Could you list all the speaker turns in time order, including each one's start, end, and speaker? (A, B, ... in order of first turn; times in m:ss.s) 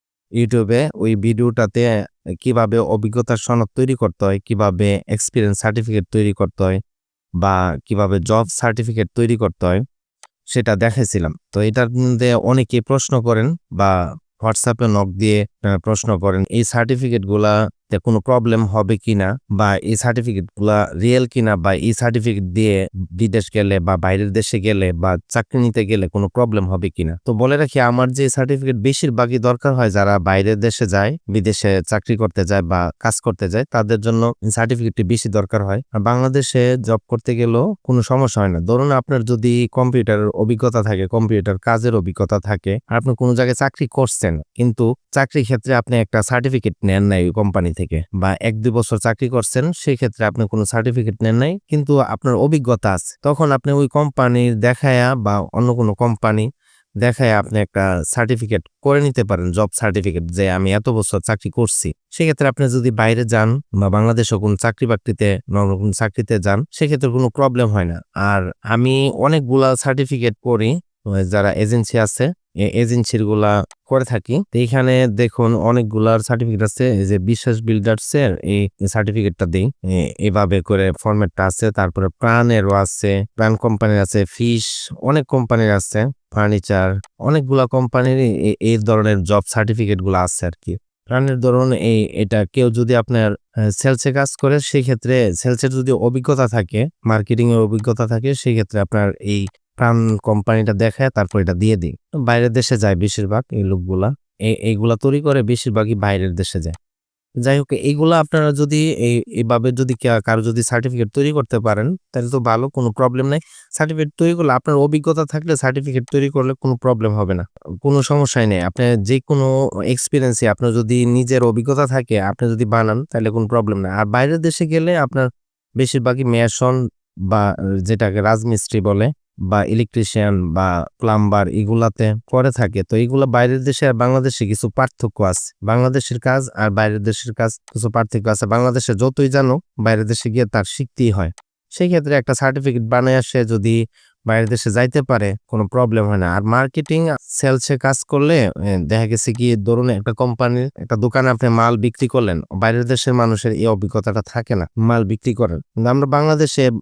0:00.4-0:01.9 A
0:02.4-0:06.8 A
0:07.4-0:09.8 A
0:10.5-0:56.5 A
0:57.0-1:46.8 A
1:47.4-2:05.3 A
2:05.8-2:06.8 A
2:07.3-2:23.8 A
2:24.3-2:36.7 A